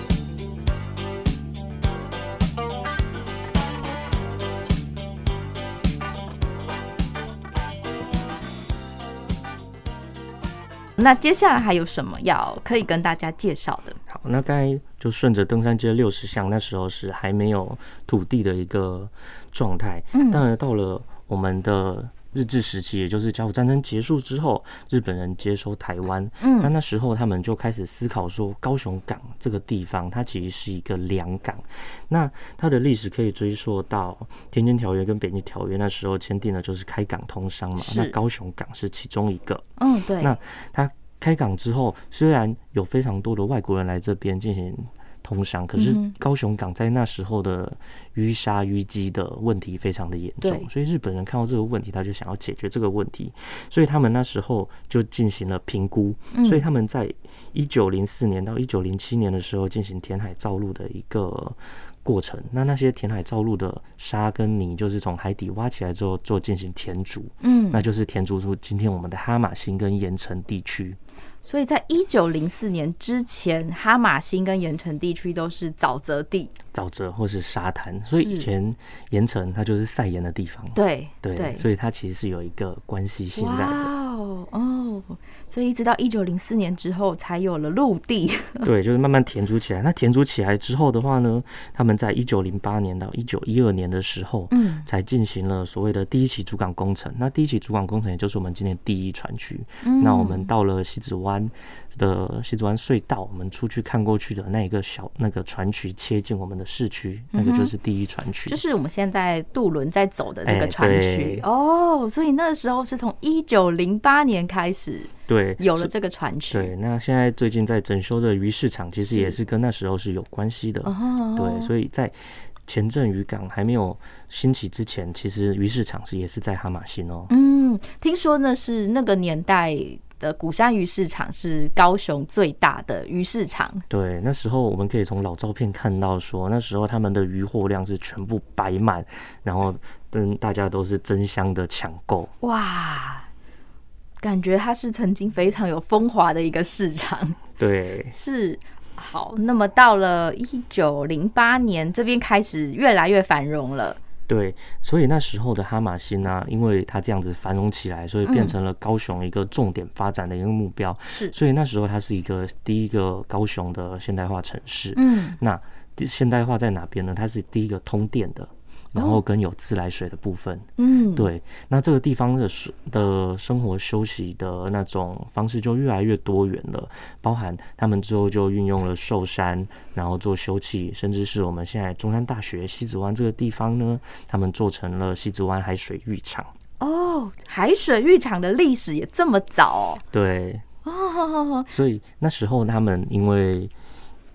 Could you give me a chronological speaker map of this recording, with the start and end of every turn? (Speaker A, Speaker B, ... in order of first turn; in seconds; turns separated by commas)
Speaker A: 11.0-14.0, Speaker B: 14.1-39.6, Speaker A: 20.1-20.4, Speaker A: 26.4-26.7, Speaker A: 37.8-38.1, Speaker A: 39.8-40.3, Speaker B: 40.2-71.0, Speaker A: 45.8-46.1, Speaker A: 50.4-50.7, Speaker A: 56.3-56.6, Speaker A: 67.4-67.8, Speaker A: 71.4-76.5, Speaker B: 76.7-83.9, Speaker A: 78.1-78.5, Speaker A: 80.7-81.6, Speaker A: 83.3-88.7, Speaker B: 88.6-108.6, Speaker A: 94.5-94.8, Speaker A: 99.8-100.5, Speaker A: 107.3-107.7, Speaker A: 108.5-116.7, Speaker B: 110.4-111.4, Speaker B: 115.3-115.9, Speaker B: 116.5-127.3, Speaker A: 119.1-119.3, Speaker A: 120.8-121.7, Speaker A: 127.3-133.8, Speaker B: 133.9-142.3, Speaker A: 142.4-143.3, Speaker A: 144.2-147.4, Speaker B: 147.6-148.1, Speaker A: 148.1-154.0, Speaker B: 154.3-186.5, Speaker A: 158.2-158.5, Speaker A: 161.1-161.3, Speaker A: 164.9-165.4, Speaker A: 168.9-169.2, Speaker A: 170.8-171.3, Speaker A: 186.8-190.0, Speaker B: 190.1-190.6, Speaker A: 190.8-191.7, Speaker B: 191.7-193.7